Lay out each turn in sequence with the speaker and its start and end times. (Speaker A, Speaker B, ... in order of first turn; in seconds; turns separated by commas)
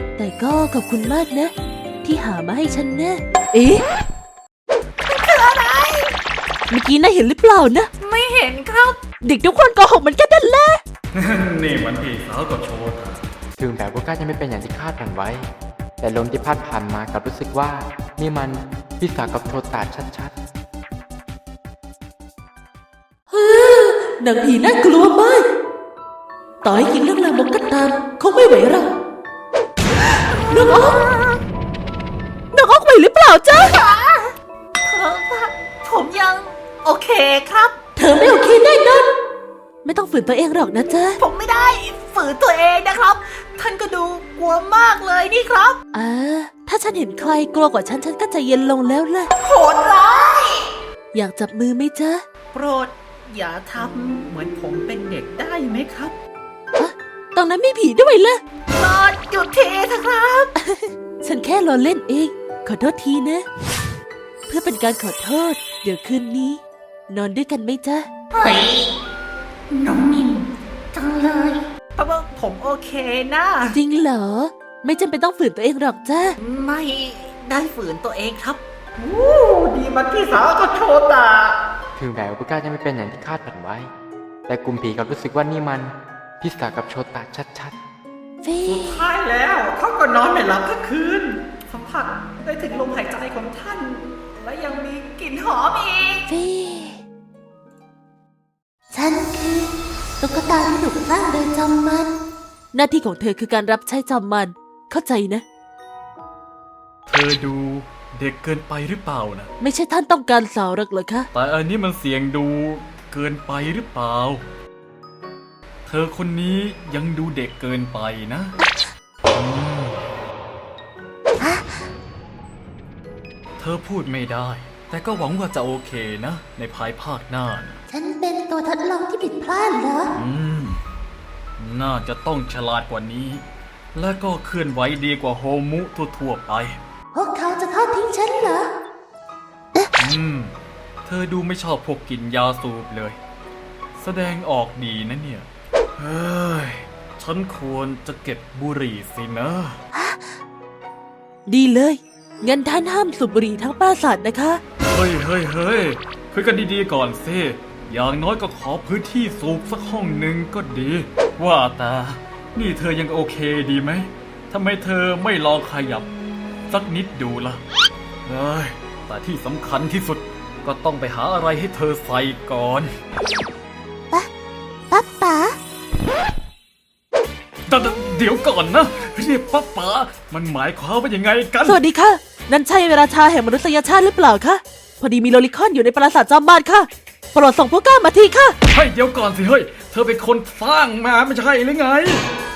Speaker A: 0.2-3.8, Speaker B: 5.0-6.1, Speaker A: 6.7-7.9, Speaker B: 8.0-9.0, Speaker A: 9.2-10.8, Speaker C: 11.1-13.2, Speaker D: 13.6-15.5, Speaker D: 16.0-20.3, Speaker A: 23.3-25.4, Speaker A: 26.6-28.9, Speaker A: 30.4-30.9, Speaker B: 30.5-31.4, Speaker A: 32.5-33.7, Speaker B: 33.6-37.8, Speaker A: 38.0-39.1, Speaker A: 39.8-41.2, Speaker B: 41.2-45.8, Speaker A: 45.9-49.3, Speaker B: 49.4-50.7, Speaker A: 51.1-52.2, Speaker B: 52.5-56.1, Speaker A: 56.7-58.4, Speaker B: 58.7-60.5, Speaker A: 60.6-63.5, Speaker A: 64.5-68.1, Speaker B: 68.3-68.9, Speaker B: 69.7-73.8, Speaker A: 73.7-76.3, Speaker B: 76.4-81.6, Speaker D: 82.0-83.9, Speaker D: 84.5-87.8, Speaker A: 88.4-89.0, Speaker B: 88.7-96.2, Speaker A: 96.3-97.0, Speaker A: 98.9-102.1, Speaker A: 102.7-105.4, Speaker C: 107.1-109.5, Speaker A: 109.6-111.3, Speaker C: 111.3-114.4, Speaker C: 115.8-118.5, Speaker C: 119.3-120.1, Speaker A: 121.4-121.9, Speaker C: 123.6-127.8, Speaker A: 127.9-130.1, Speaker C: 130.1-130.8, Speaker C: 131.6-136.8, Speaker A: 137.1-138.7, Speaker C: 140.0-143.2, Speaker C: 144.0-149.8, Speaker A: 149.9-150.4, Speaker A: 151.5-154.6, Speaker C: 154.8-166.1, Speaker C: 166.7-167.6, Speaker C: 168.2-172.9, Speaker A: 174.9-175.6, Speaker C: 177.7-181.8, Speaker A: 181.6-188.6, Speaker C: 188.7-192.2